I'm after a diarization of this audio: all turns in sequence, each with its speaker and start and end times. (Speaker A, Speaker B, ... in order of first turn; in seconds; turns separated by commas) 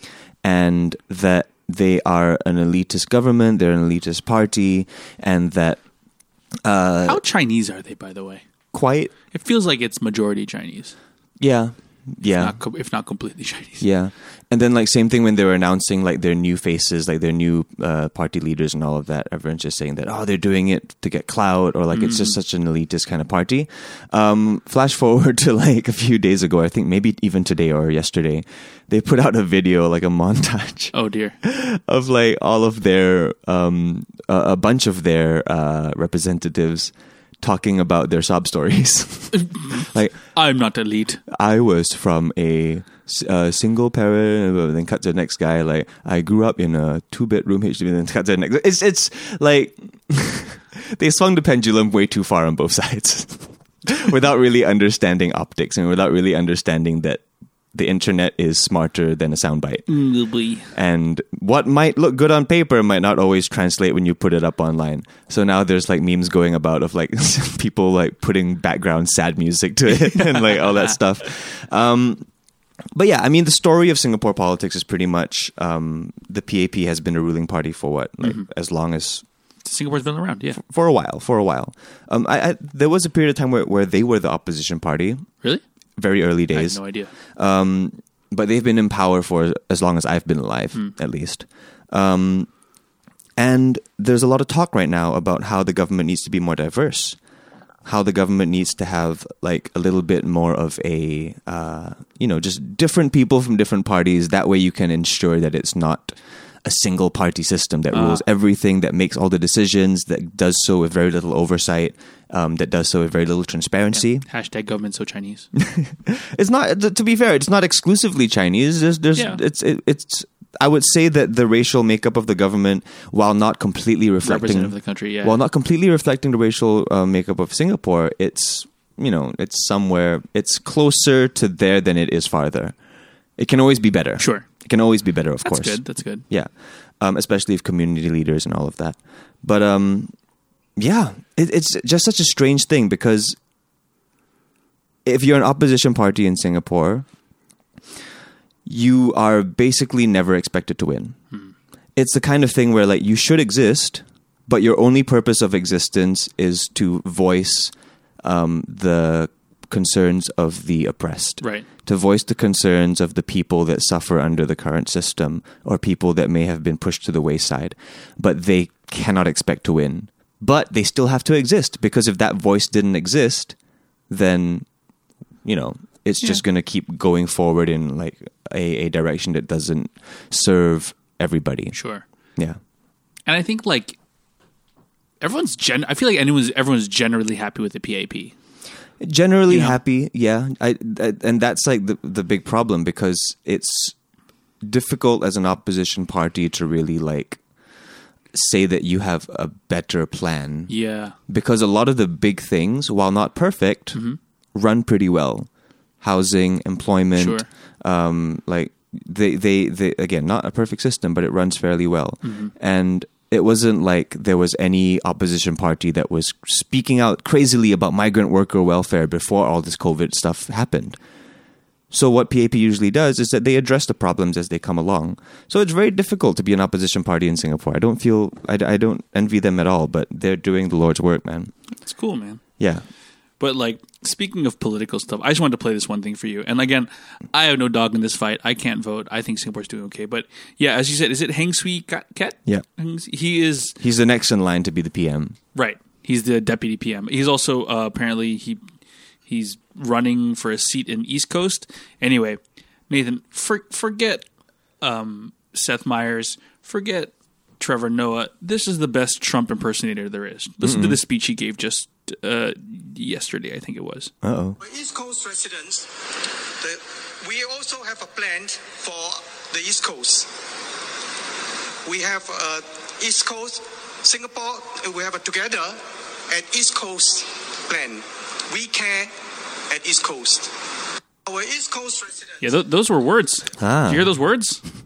Speaker A: 0.4-5.8, Speaker A: 6.6-7.2, Speaker B: 7.1-8.4, Speaker A: 8.7-9.1, Speaker B: 9.3-10.9, Speaker A: 11.4-12.6, Speaker B: 12.4-13.8, Speaker A: 13.8-40.2, Speaker B: 21.9-22.4, Speaker B: 30.9-31.4, Speaker B: 39.5-41.2, Speaker A: 41.3-59.9, Speaker B: 59.9-60.7, Speaker A: 60.7-72.3, Speaker B: 70.0-70.7, Speaker A: 73.0-79.2, Speaker B: 79.6-80.6, Speaker A: 80.5-85.3, Speaker A: 86.0-86.8, Speaker B: 86.5-87.1, Speaker A: 87.3-92.5, Speaker A: 93.4-97.2, Speaker A: 97.8-114.2, Speaker B: 107.9-108.2, Speaker B: 114.0-115.5, Speaker A: 115.6-132.8, Speaker B: 119.2-119.4, Speaker B: 124.2-125.4, Speaker A: 133.4-140.1, Speaker B: 134.2-134.5, Speaker B: 135.4-136.2, Speaker A: 140.8-143.4, Speaker A: 145.1-147.1, Speaker A: 148.7-151.2, Speaker A: 152.0-173.6, Speaker B: 161.4-161.7, Speaker A: 174.1-174.7, Speaker A: 175.4-181.8, Speaker B: 181.7-182.0, Speaker B: 183.3-184.0, Speaker B: 185.2-188.3, Speaker A: 189.0-193.9, Speaker B: 189.5-189.8, Speaker A: 194.6-197.4, Speaker A: 198.3-200.7, Speaker B: 200.7-201.2, Speaker A: 201.3-204.0, Speaker A: 204.5-205.5, Speaker A: 206.0-221.0, Speaker B: 207.2-207.5, Speaker B: 212.2-212.5, Speaker A: 221.9-231.5, Speaker B: 231.8-232.4, Speaker B: 233.4-243.8, Speaker A: 243.8-245.4, Speaker B: 245.6-248.6, Speaker B: 249.3-254.3, Speaker B: 254.8-264.1, Speaker A: 260.6-261.0, Speaker A: 264.2-264.6, Speaker C: 264.6-265.9, Speaker C: 266.6-270.3, Speaker C: 271.9-279.1, Speaker C: 279.7-280.5, Speaker C: 281.3-282.5, Speaker B: 282.4-284.6, Speaker A: 283.6-284.1